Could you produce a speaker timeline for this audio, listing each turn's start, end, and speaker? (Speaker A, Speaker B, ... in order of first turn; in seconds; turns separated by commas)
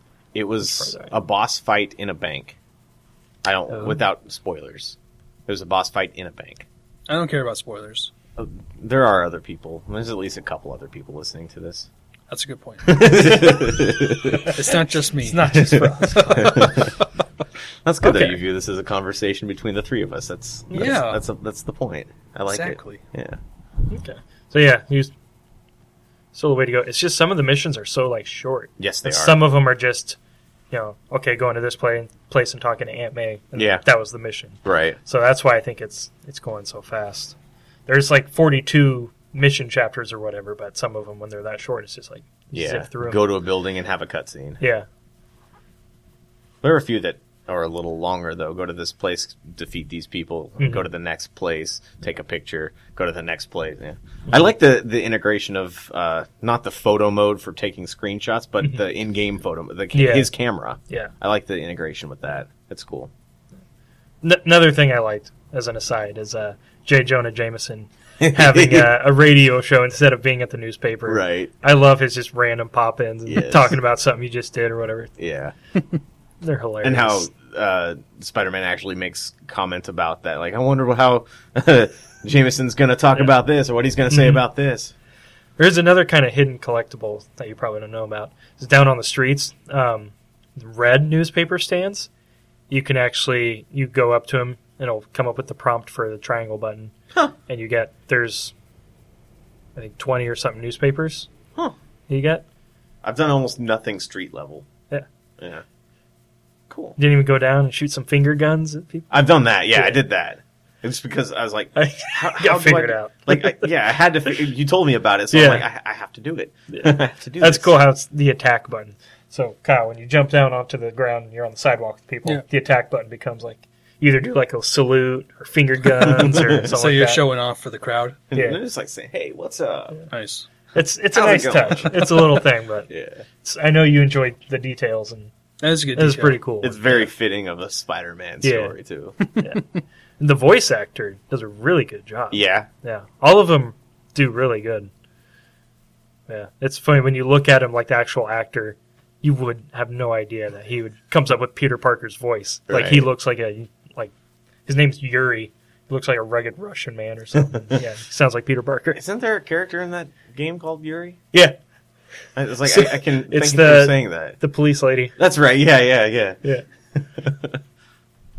Speaker A: 0.3-2.6, Speaker B: 0.6-1.1, Speaker A: 3.4-5.0, Speaker B: 3.7-4.0, Speaker A: 5.5-6.7, Speaker C: 7.1-8.1, Speaker A: 8.3-11.9, Speaker C: 12.3-13.1, Speaker A: 12.8-14.6, Speaker B: 14.3-16.7, Speaker C: 14.5-16.8, Speaker A: 15.5-16.9, Speaker A: 17.8-23.4, Speaker B: 18.0-18.4, Speaker C: 20.7-21.2, Speaker C: 22.5-23.0, Speaker B: 23.9-25.1, Speaker B: 26.3-30.2, Speaker A: 28.8-29.4, Speaker B: 30.7-37.3, Speaker A: 33.5-33.8, Speaker A: 34.6-35.0, Speaker B: 37.9-43.2, Speaker A: 42.5-44.6, Speaker B: 44.6-44.9, Speaker A: 46.6-63.1, Speaker B: 59.9-60.3, Speaker B: 64.2-75.1, Speaker A: 68.2-68.9, Speaker A: 71.0-71.5, Speaker A: 73.3-73.8, Speaker A: 75.2-75.5, Speaker B: 76.4-77.2, Speaker A: 76.8-84.9, Speaker B: 84.1-84.4, Speaker B: 85.6-92.1, Speaker B: 92.7-96.9, Speaker B: 97.5-98.5, Speaker B: 99.8-101.3, Speaker B: 102.1-102.4, Speaker A: 103.0-104.7, Speaker A: 105.4-105.6, Speaker A: 106.7-107.0, Speaker B: 107.0-109.2, Speaker A: 109.1-117.8, Speaker B: 109.7-110.0, Speaker B: 111.7-113.7, Speaker B: 115.3-115.6, Speaker B: 116.7-127.2, Speaker A: 126.0-126.7, Speaker C: 126.4-128.2, Speaker A: 128.3-130.0, Speaker B: 128.3-128.6, Speaker C: 130.1-130.4, Speaker B: 130.7-132.9, Speaker A: 131.1-133.2, Speaker B: 133.4-135.3, Speaker C: 135.6-136.4, Speaker B: 135.9-137.0, Speaker A: 136.6-139.2, Speaker B: 138.4-138.7, Speaker B: 139.4-139.6, Speaker B: 140.2-144.9, Speaker A: 142.3-142.7, Speaker B: 146.3-154.1, Speaker A: 152.7-153.1, Speaker B: 154.7-159.0, Speaker A: 158.9-161.2, Speaker B: 161.3-161.6, Speaker A: 162.3-164.4, Speaker B: 162.7-165.2, Speaker A: 165.2-166.4, Speaker A: 166.9-167.6